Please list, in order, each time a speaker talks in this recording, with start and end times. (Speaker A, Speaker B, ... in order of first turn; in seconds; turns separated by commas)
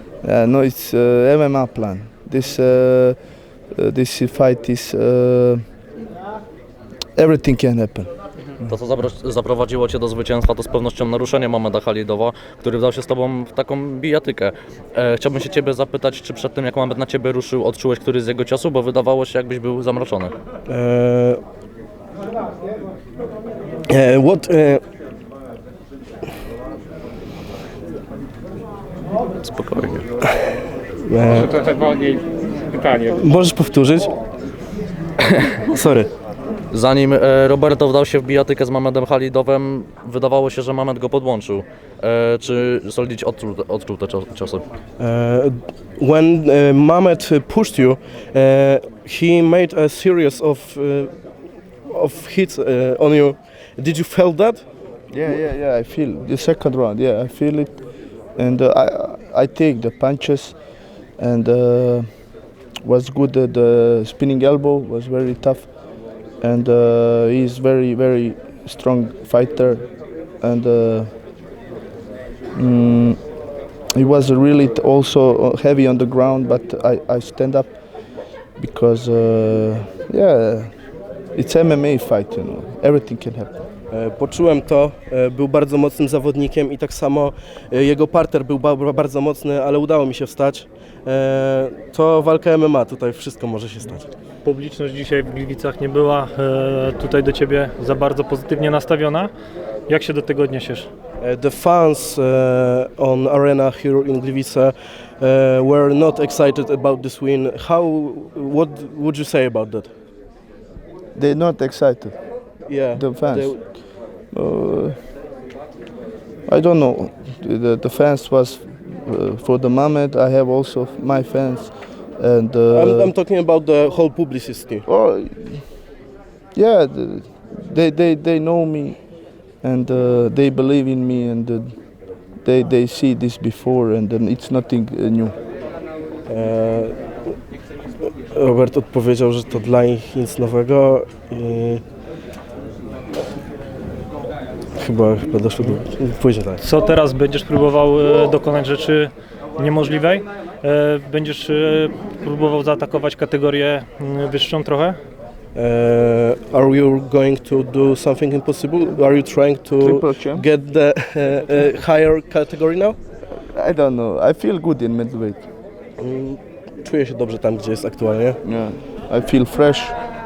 Speaker A: 0.2-5.6, Speaker A: 7.2-8.1, Speaker B: 8.7-20.3, Speaker C: 20.6-21.4, Speaker C: 23.9-24.8, Speaker B: 29.4-30.0, Speaker C: 31.1-31.7, Speaker C: 33.0-34.1, Speaker C: 35.7-36.1, Speaker B: 36.7-44.6, Speaker C: 45.0-51.1, Speaker C: 51.8-54.7, Speaker A: 55.1-60.6, Speaker A: 61.1-62.3, Speaker A: 62.8-65.7, Speaker A: 66.4-71.1, Speaker A: 72.5-73.2, Speaker A: 73.9-77.8, Speaker A: 78.6-80.8, Speaker A: 81.3-83.6, Speaker C: 83.9-94.1, Speaker D: 94.4-99.3, Speaker D: 99.9-100.9, Speaker C: 101.2-109.9, Speaker A: 111.1-112.1, Speaker C: 112.7-113.6, Speaker A: 112.8-113.8, Speaker A: 114.3-115.0, Speaker A: 116.5-123.1, Speaker C: 122.7-124.8, Speaker A: 124.9-125.8, Speaker A: 126.5-135.3, Speaker C: 136.3-137.0, Speaker C: 138.3-141.8, Speaker C: 144.8-146.6, Speaker D: 146.6-155.0, Speaker C: 155.5-163.0, Speaker A: 159.8-160.4, Speaker A: 163.5-165.5, Speaker C: 166.0-168.4, Speaker A: 168.4-169.9